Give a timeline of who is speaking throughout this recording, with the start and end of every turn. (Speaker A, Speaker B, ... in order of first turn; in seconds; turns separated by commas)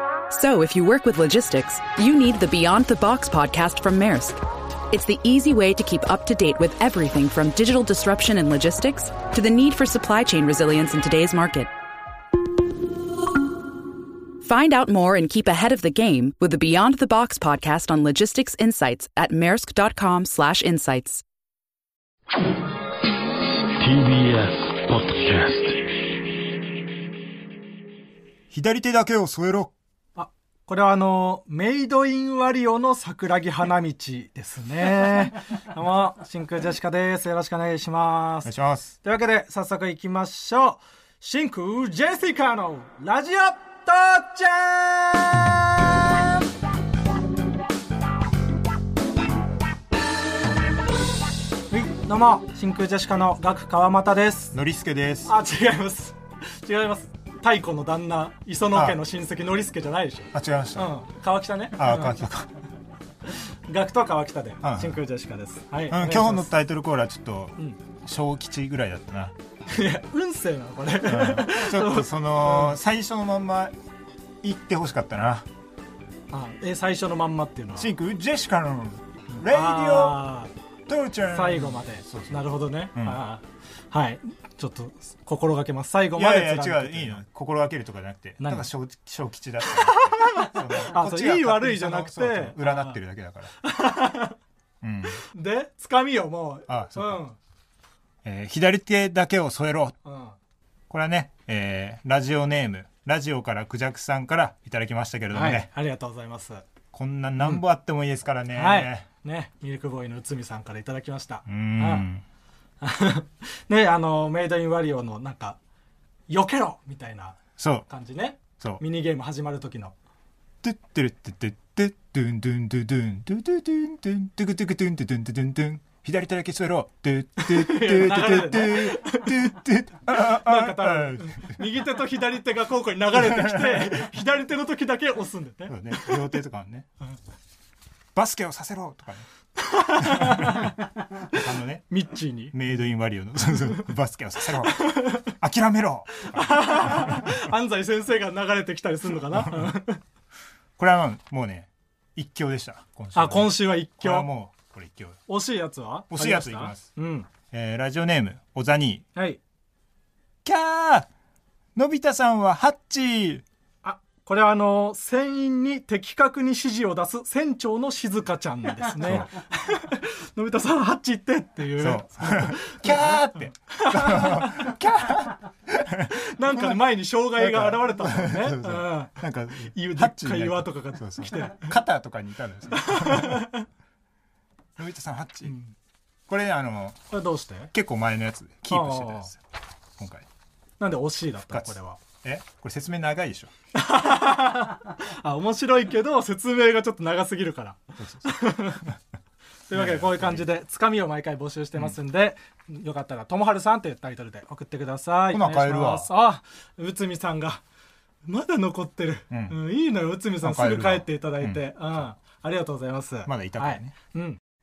Speaker A: 0.3-11.7, Speaker A: 14.4-21.2, Speaker B: 23.8-25.9, Speaker C: 28.5-29.7, Speaker D: 30.2-38.5, Speaker C: 38.5-38.9, Speaker D: 39.0-46.3, Speaker D: 51.7-54.6, Speaker C: 54.5-55.3, Speaker D: 55.3-62.1, Speaker C: 58.7-59.0, Speaker C: 60.3-60.9, Speaker C: 61.8-62.5, Speaker D: 63.7-66.5, Speaker C: 64.6-65.0, Speaker C: 65.9-69.4, Speaker D: 69.7-72.8, Speaker C: 71.0-73.8, Speaker C: 74.4-75.5, Speaker D: 76.3-77.9, Speaker C: 77.8-80.2, Speaker D: 79.5-80.5, Speaker C: 80.9-83.2, Speaker D: 81.3-87.2, Speaker C: 86.2-93.5, Speaker D: 88.4-88.7, Speaker D: 89.8-93.0, Speaker D: 93.6-94.4, Speaker C: 94.8-95.2, Speaker D: 95.2-97.4, Speaker C: 96.7-97.2, Speaker C: 98.2-100.0, Speaker D: 100.0-100.4, Speaker C: 100.9-105.7, Speaker D: 105.3-106.7, Speaker C: 106.9-109.1, Speaker D: 108.5-112.1, Speaker C: 111.5-112.2, Speaker D: 112.8-115.6, Speaker D: 116.3-119.9, Speaker C: 117.6-117.9, Speaker C: 120.6-131.6, Speaker D: 127.4-129.6, Speaker D: 130.1-136.2, Speaker C: 133.1-134.1, Speaker C: 135.7-136.9, Speaker C: 138.2-139.3, Speaker D: 139.6-140.8, Speaker C: 140.0-141.9, Speaker D: 141.9-142.5, Speaker C: 142.5-147.5, Speaker D: 144.7-145.3, Speaker D: 146.2-150.0, Speaker C: 149.3-149.7, Speaker C: 150.8-155.2, Speaker D: 153.2-154.3, Speaker D: 155.3-157.3, Speaker C: 156.1-156.9, Speaker C: 157.5-159.1, Speaker D: 159.2-159.4, Speaker C: 160.4-161.1, Speaker C: 161.8-163.4, Speaker D: 163.8-174.8, Speaker C: 169.0-169.3, Speaker C: 171.8-176.8, Speaker D: 176.1-179.2, Speaker C: 177.4-183.5, Speaker D: 179.7-181.8, Speaker D: 182.7-183.7, Speaker C: 184.8-185.6, Speaker D: 185.5-185.7, Speaker C: 186.3-187.1, Speaker D: 187.1-187.7, Speaker C: 187.7-189.4, Speaker D: 188.7-189.3, Speaker C: 190.0-190.3, Speaker D: 190.8-192.0, Speaker C: 191.5-193.5, Speaker D: 193.7-198.8, Speaker C: 198.0-199.0, Speaker D: 199.7-207.6, Speaker C: 199.7-200.5, Speaker C: 205.3-206.1, Speaker D: 208.2-214.4, Speaker C: 209.3-209.6, Speaker C: 210.4-211.6, Speaker C: 213.2-213.9